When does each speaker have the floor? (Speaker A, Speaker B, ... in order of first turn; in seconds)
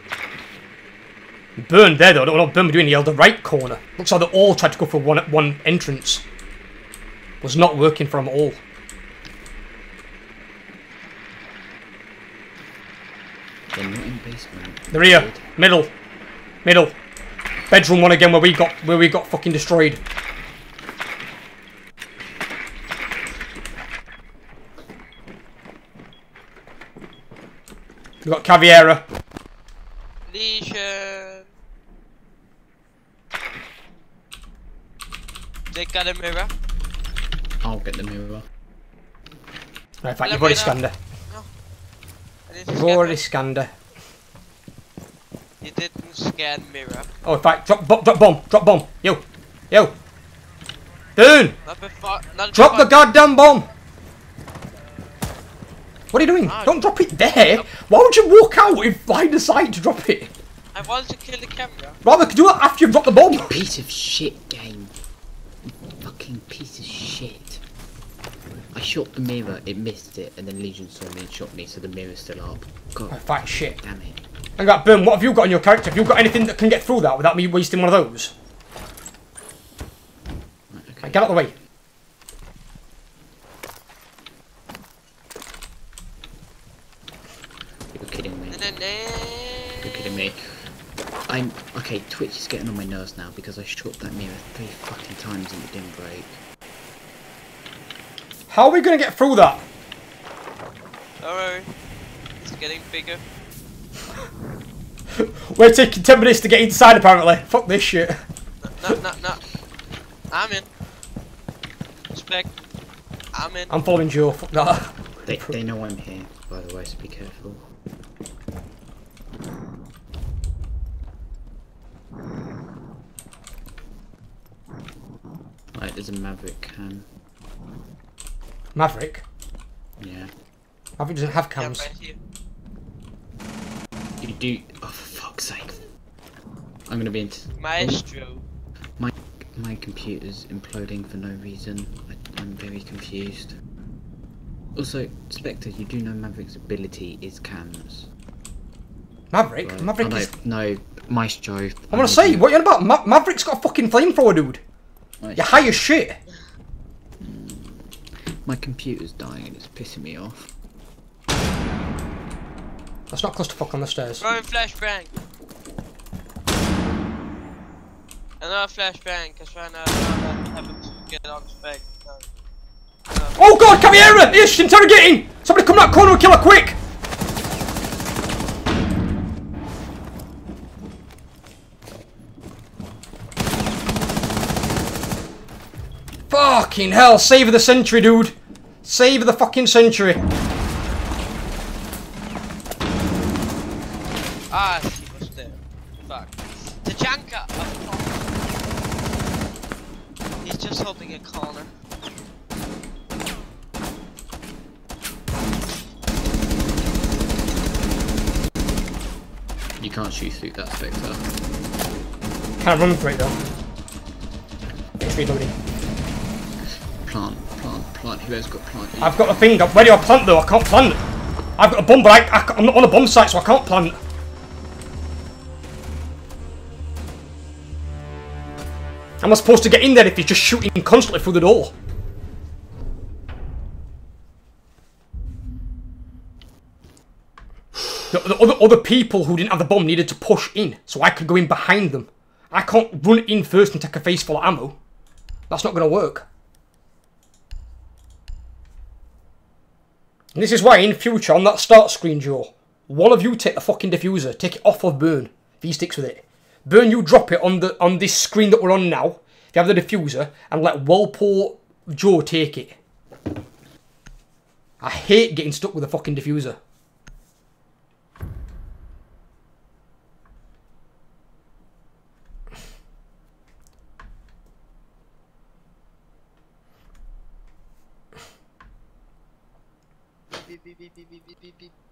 Speaker A: 1.6-6.2, 7.4-8.6, 14.9-15.9, 16.6-16.9, 17.7-20.0, 28.2-29.0, 40.0-41.0, 42.7-43.7, 47.2-50.0, 51.2-51.6, 52.5-53.7, 56.1-60.3, 62.0-63.6, 73.1-73.8, 74.6-78.3, 81.0-81.5, 98.5-99.7, 105.1-108.2, 113.7-115.6, 128.7-129.2, 131.0-131.9, 149.3-150.3, 151.9-154.6, 155.4-156.2, 163.1-164.3, 173.4-176.8, 186.3-190.2, 212.6-213.4, 215.0-215.5, 219.0-221.0, 221.6-224.0, 229.2-231.7, 238.1-244.8, 245.5-246.3, 250.3-262.8, 264.8-266.6
Speaker B: 13.7-15.5, 37.6-38.5, 63.3-64.9, 66.0-67.6, 68.7-74.2, 80.7-81.3, 87.9-88.6, 89.8-90.7, 91.3-96.4, 115.2-117.7, 125.7-127.1, 130.0-130.3, 134.2-135.8, 136.9-138.0, 139.0-143.6, 144.8-148.1, 149.6-152.5, 155.2-155.8, 157.2-160.5, 209.8-211.2, 217.0-219.2
Speaker C: 30.3-31.5, 35.7-36.5, 40.2-41.5, 42.5-43.2, 45.6-47.1, 51.7-53.1, 56.5-56.8, 60.8-62.0, 88.5-90.1, 101.2-101.7, 102.4-103.2, 108.7-109.5, 110.3-110.7, 112.1-112.5, 113.3-113.7, 131.6-132.2, 137.6-138.4, 164.2-165.1, 168.4-172.2, 173.1-173.4, 194.5-198.3, 200.4-201.7, 280.4-281.7